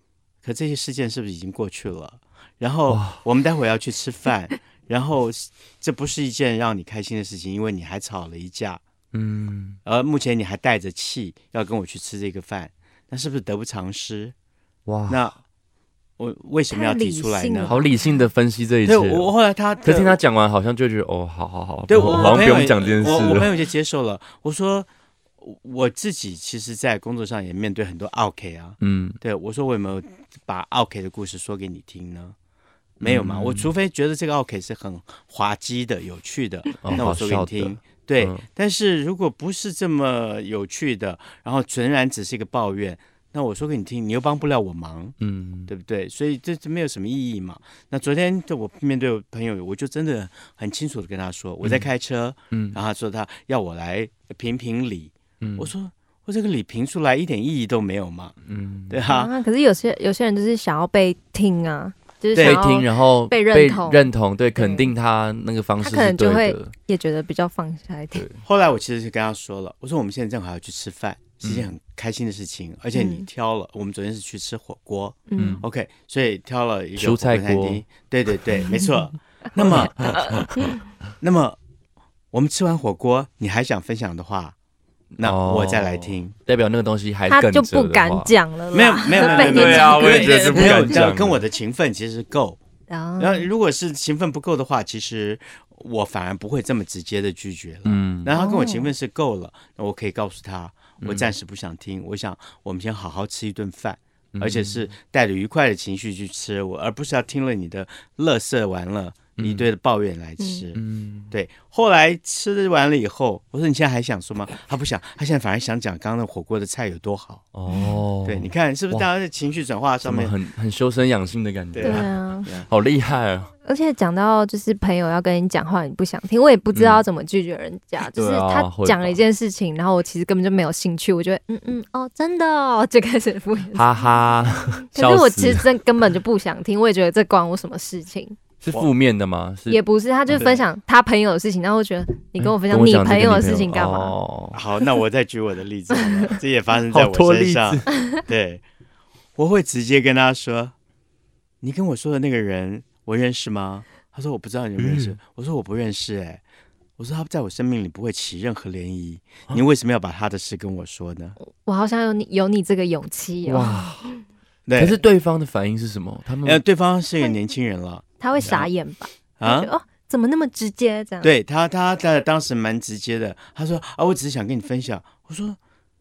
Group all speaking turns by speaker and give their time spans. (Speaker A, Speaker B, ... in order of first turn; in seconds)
Speaker A: 0.4-8.8, 9.8-14.3, 15.1-15.3, 16.2-17.8, 18.8-20.2, 21.9-24.9, 25.4-32.3, 33.0-45.2, 45.7-58.3, 58.9-59.3, 62.3-62.6, 68.4-80.5, 81.2-81.6, 82.3-84.5, 85.2-86.3, 88.7-92.6, 93.2-117.5, 118.2-120.3, 121.7-122.7, 140.4-140.6, 144.5-148.6, 149.3-150.7, 151.6-156.4, 157.0-161.4, 164.7-165.0, 166.4-168.7, 169.4-169.7, 171.2-175.6
Speaker B: 2.9-3.2, 9.1-9.8, 14.8-15.3, 17.7-19.3, 19.8-23.5, 28.8-29.2, 33.0-33.7, 36.8-38.4, 45.2-45.7, 52.5-52.8, 55.4-55.7, 58.4-59.0, 62.4-66.7, 68.1-68.4, 71.4-71.7, 75.4-75.6, 77.0-77.8, 79.7-80.2, 85.2-88.3, 89.2-91.4, 97.8-98.3, 101.0-101.3, 104.3-104.9, 109.4-109.7, 110.7-111.3, 117.5-119.0, 120.0-123.5, 126.7-127.0, 128.1-129.2, 133.7-135.7, 138.6-140.5, 142.4-144.6, 146.9-147.9, 154.8-155.2, 163.4-164.1, 164.8-166.6
Speaker C: 16.7-18.1, 59.1-64.0, 64.5-64.9, 65.8-68.2, 72.9-73.2, 75.3-75.6, 79.6-80.8, 87.3-91.0, 92.9-93.5, 98.3-98.9, 121.8-122.5, 123.6-133.9, 134.9-138.4, 139.7-144.2, 161.4-164.1, 168.2-171.3